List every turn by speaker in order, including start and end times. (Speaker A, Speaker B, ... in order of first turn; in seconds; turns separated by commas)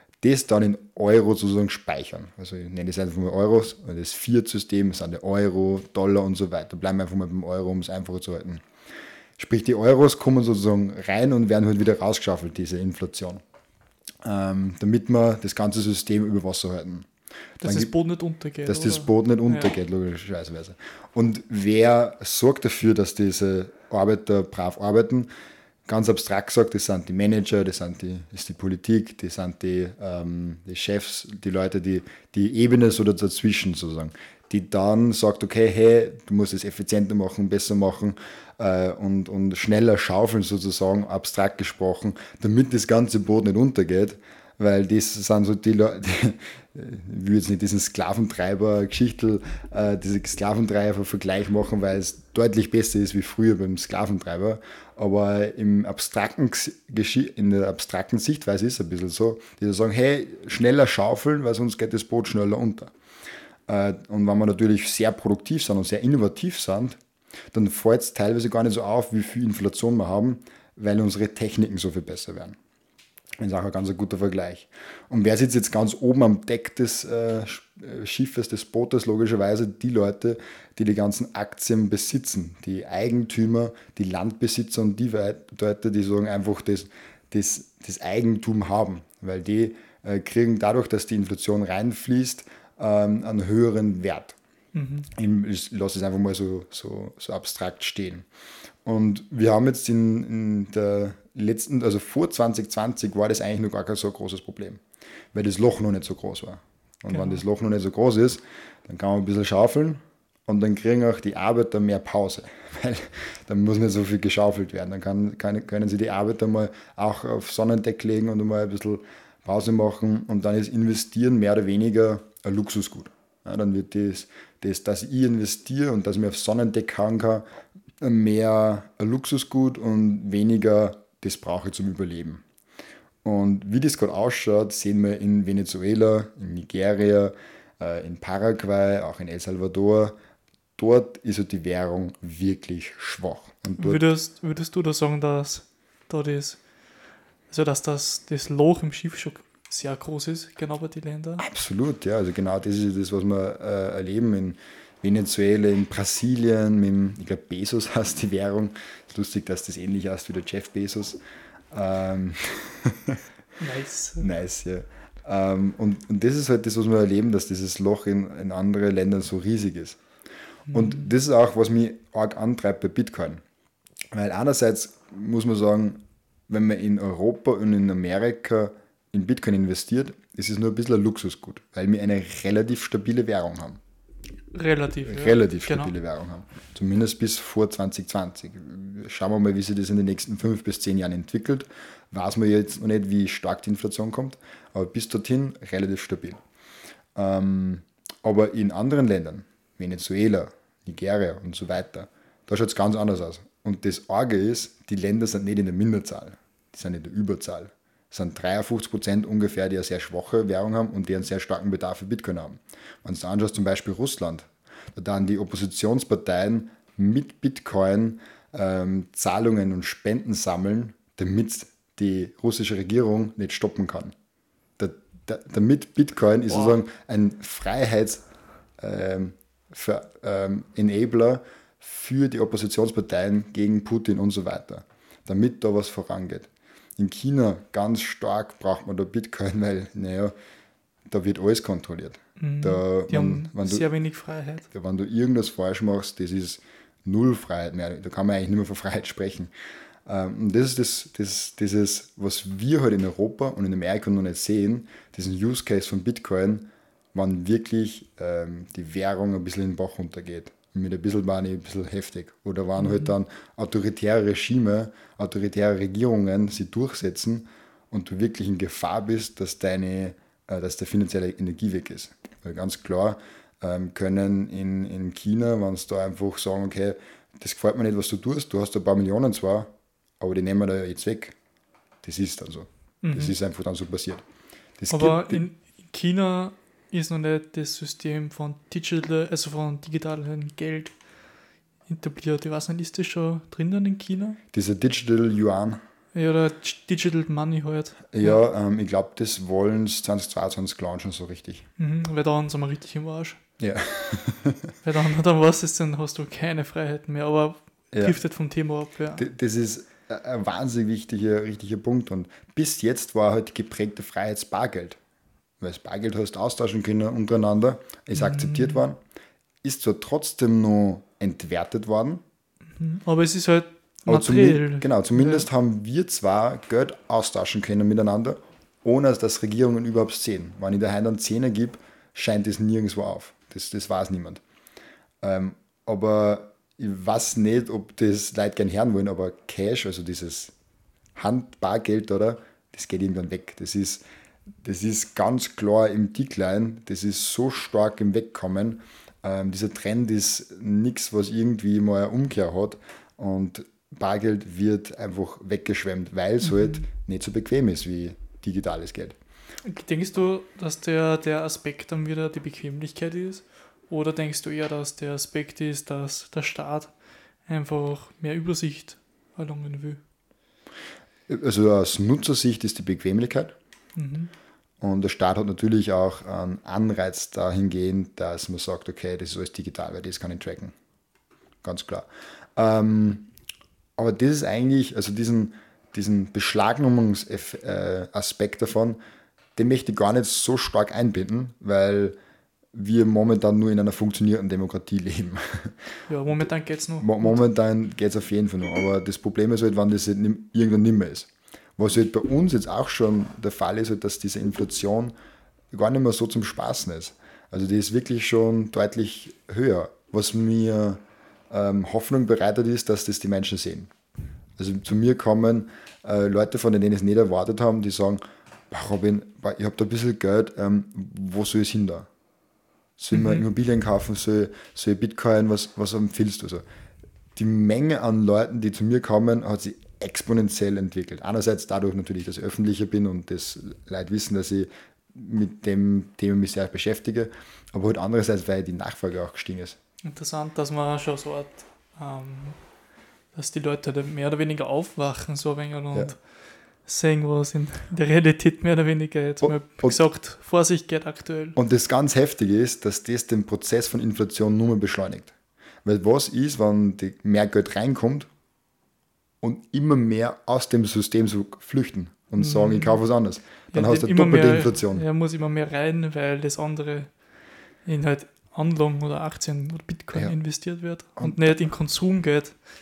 Speaker A: 0.2-8.7, Speaker A: 9.4-13.4, Speaker A: 14.2-17.1, Speaker B: 17.6-19.7, Speaker A: 17.6-17.9, Speaker A: 18.7-25.3, Speaker A: 25.9-62.9, Speaker A: 63.7-67.0, Speaker A: 67.5-72.6, Speaker A: 73.4-94.4, Speaker B: 94.7-95.1, Speaker A: 95.1-98.3, Speaker A: 98.8-104.8, Speaker A: 105.3-127.5, Speaker B: 107.1-107.4, Speaker A: 128.0-132.4, Speaker A: 133.2-140.2, Speaker A: 140.8-144.1, Speaker B: 143.8-146.6, Speaker B: 147.5-151.4, Speaker A: 151.4-161.2, Speaker A: 161.7-163.2, Speaker B: 163.6-164.3, Speaker A: 164.2-170.0, Speaker B: 170.7-171.1, Speaker A: 170.7-173.4, Speaker A: 174.1-183.8, Speaker B: 184.5-185.9, Speaker A: 185.0-196.4, Speaker A: 197.2-224.2, Speaker A: 224.8-228.3, Speaker B: 226.5-226.8, Speaker A: 228.8-240.3, Speaker A: 241.1-243.9, Speaker B: 242.4-244.7, Speaker A: 244.7-249.5, Speaker A: 250.1-281.4, Speaker B: 262.8-263.1, Speaker A: 282.0-284.2, Speaker B: 283.0-283.4, Speaker A: 284.8-285.4, Speaker B: 284.9-291.0, Speaker B: 291.9-294.4, Speaker A: 294.5-295.8, Speaker B: 296.1-298.4, Speaker A: 298.1-301.7, Speaker B: 301.8-303.4, Speaker A: 303.6-304.7, Speaker B: 304.8-309.3, Speaker A: 309.2-315.0, Speaker A: 315.6-319.0, Speaker B: 318.1-318.8, Speaker A: 319.6-322.2, Speaker B: 322.7-325.5, Speaker A: 324.1-334.4, Speaker A: 335.2-340.5, Speaker A: 341.1-344.0, Speaker A: 344.6-359.2, Speaker B: 356.4-356.8, Speaker B: 359.6-370.0, Speaker A: 371.3-373.6, Speaker B: 374.0-374.3, Speaker A: 374.8-380.7, Speaker A: 381.6-383.3, Speaker A: 384.0-389.0, Speaker A: 389.6-392.2, Speaker A: 392.7-396.4, Speaker B: 396.1-397.4, Speaker A: 397.0-405.1, Speaker A: 405.7-413.9, Speaker A: 414.6-422.1, Speaker A: 423.0-426.6, Speaker B: 423.1-423.4, Speaker A: 427.4-439.8, Speaker B: 440.0-442.6, Speaker B: 443.3-451.6, Speaker A: 449.4-450.0, Speaker A: 451.6-455.3, Speaker A: 455.9-458.3, Speaker A: 459.4-465.1, Speaker B: 462.4-463.0, Speaker B: 463.7-467.3, Speaker B: 467.8-472.6